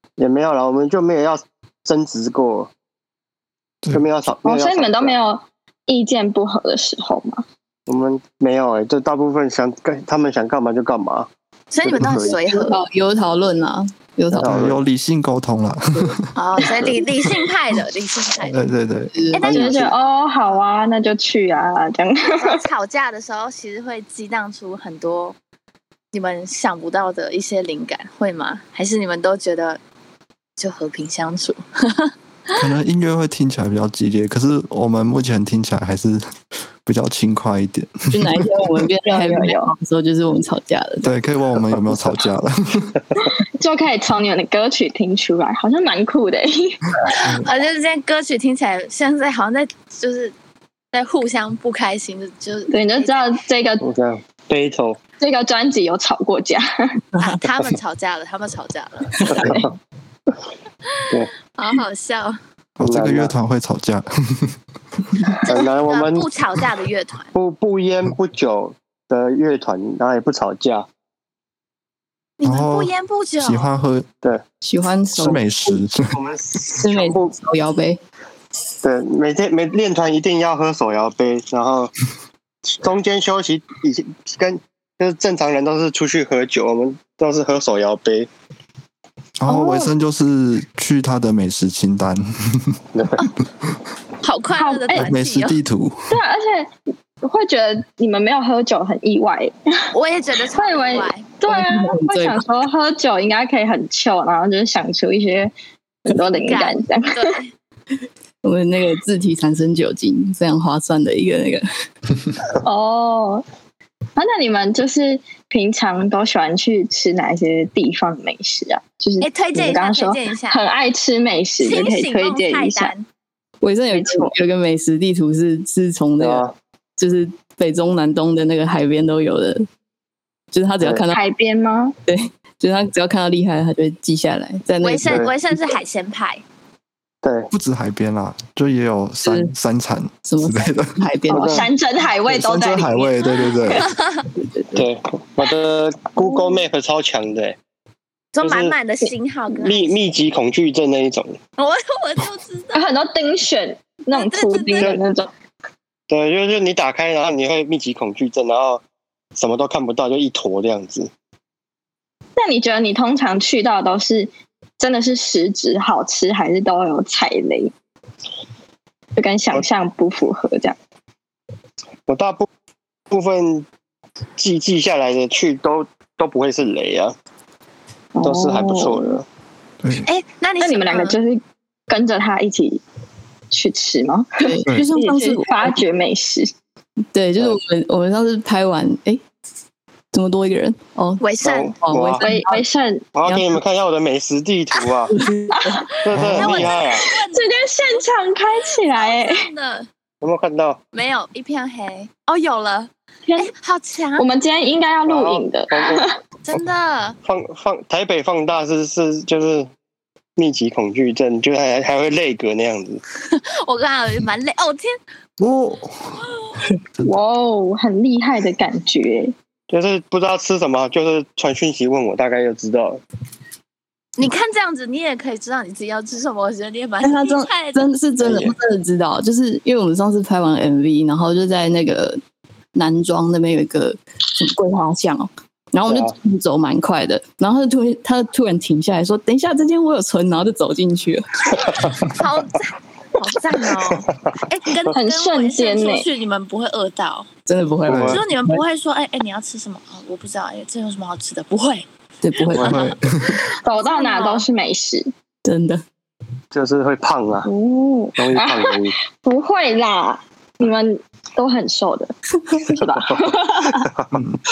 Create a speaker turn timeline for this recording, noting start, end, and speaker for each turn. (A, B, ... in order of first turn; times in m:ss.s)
0:00.2-0:02.7 A
0:03.9-0:05.2 A
0:04.4-0:07.4 B
0:07.9-0:11.3 A
0:11.7-0:12.8 C
0:11.8-0:12.4 A
0:12.0-0:14.5 D
0:14.4-0:14.8 A
0:14.4-0:16.3 E
0:16.4-0:18.6 C
0:18.4-0:19.5 E
0:19.1-0:19.4 D
0:19.3-0:19.9 C
0:19.4-0:22.6 B
0:19.5-0:19.8 A
0:22.3-0:25.4 C
0:26.1-0:29.8 C
0:30.6-0:32.6 C
0:32.5-0:36.3 E
0:36.8-0:38.5 E
0:38.1-0:41.1 D
0:39.1-0:39.7 B
0:41.0-0:43.0 E
0:43.6-0:47.0 B
0:47.2-0:50.3 C
0:47.2-0:47.5 E
0:50.9-0:53.4 C
0:52.7-0:53.8 B
0:53.8-0:55.0 A
0:55.2-0:56.9 B
0:57.2-0:59.2 C
0:59.2-0:59.5 D
0:59.3-0:59.7 A
1:00.9-1:02.4 C
1:02.8-1:04.6 E
1:02.8-1:03.3 A
1:05.5-1:07.3 C
1:05.5-1:06.3 A
1:07.4-1:10.9 A
1:12.4-1:13.7 C
1:12.4-1:14.1 E
1:14.6-1:15.8 D
1:15.2-1:16.2 E
1:16.1-1:17.4 A
1:16.8-1:18.0 D
1:18.8-1:21.9 A
1:22.7-1:28.3 A
1:29.4-1:32.8 E
1:29.5-1:29.9 B
1:34.2-1:35.6 C
1:34.6-1:35.1 B
1:35.0-1:36.2 E
1:36.1-1:39.6 B
1:39.9-1:41.3 C
1:40.5-1:45.5 B
1:41.5-1:42.5 D
1:46.1-1:47.2 B
1:46.4-1:47.5 C
1:48.4-1:51.6 D
1:52.6-1:53.4 B
1:54.2-2:02.9 B
1:59.2-2:00.6 C
2:01.6-2:03.1 C
2:03.6-2:06.5 D
2:03.9-2:04.3 B
2:06.2-2:06.6 A
2:07.0-2:09.7 D
2:10.5-2:11.2 D
2:11.1-2:12.0 B
2:12.1-2:15.2 D
2:14.8-2:16.4 C
2:15.1-2:15.3 A
2:17.2-2:17.5 A
2:17.5-2:21.0 E
2:19.2-2:19.5 D
2:20.2-2:21.7 D
2:21.3-2:21.7 A
2:21.4-2:23.9 B
2:22.2-2:23.9 E
2:23.8-2:24.2 C
2:24.4-2:24.8 D
2:24.8-2:27.6 A
2:26.2-2:26.6 B
2:28.3-2:30.0 C
2:28.4-2:28.8 A
2:29.5-2:31.4 A
2:31.6-2:32.9 C
2:32.7-2:35.3 B
2:34.1-2:35.0 C
2:36.1-2:38.8 A
2:39.4-2:41.1 A
2:42.4-2:47.7 B
2:49.2-2:50.8 B
2:52.1-2:52.5 A
2:53.1-2:53.7 A
2:54.4-2:57.2 A
2:58.2-2:59.0 B
2:58.2-2:59.2 A
2:59.8-3:00.1 E
3:00.0-3:01.2 C
3:00.6-3:02.8 B
3:03.5-3:06.5 B
3:04.4-3:05.8 D
3:07.1-3:09.2 D
3:10.1-3:11.2 D
3:11.2-3:11.7 C
3:11.4-3:12.3 A
3:11.8-3:12.6 D
3:12.2-3:13.1 B
3:13.2-3:15.1 A
3:13.3-3:13.6 D
3:15.1-3:15.9 D
3:15.5-3:15.9 B
3:16.0-3:17.1 A
3:16.1-3:16.8 E
3:16.3-3:18.1 C
3:16.6-3:19.5 B
3:18.8-3:19.9 C
3:20.2-3:20.8 A
3:20.9-3:24.3 C
3:24.2-3:26.2 B
3:25.1-3:26.1 A
3:26.4-3:27.2 C
3:27.2-3:29.7 A
3:30.4-3:33.0 A
3:33.3-3:35.0 C
3:35.4-3:36.2 E
3:37.0-3:39.4 B
3:39.7-3:43.0 A
3:44.2-3:47.9 C
3:47.0-3:52.2 D
3:48.2-3:48.6 A
3:52.7-4:01.6 D
3:55.9-3:56.2 A
4:01.7-4:02.0 A
4:02.1-4:07.3 C
4:03.9-4:04.4 A
4:04.9-4:06.1 B
4:07.5-4:08.6 D
4:07.9-4:08.2 A
4:07.9-4:08.2 E
4:07.9-4:11.9 C
4:12.2-4:12.8 D
4:12.5-4:12.9 A
4:12.6-4:13.4 E
4:12.7-4:14.5 C
4:13.6-4:15.1 B
4:15.4-4:15.8 D
4:16.5-4:17.5 A
4:17.5-4:23.8 B
4:18.2-4:19.0 A
4:22.8-4:24.2 A
4:24.1-4:24.4 E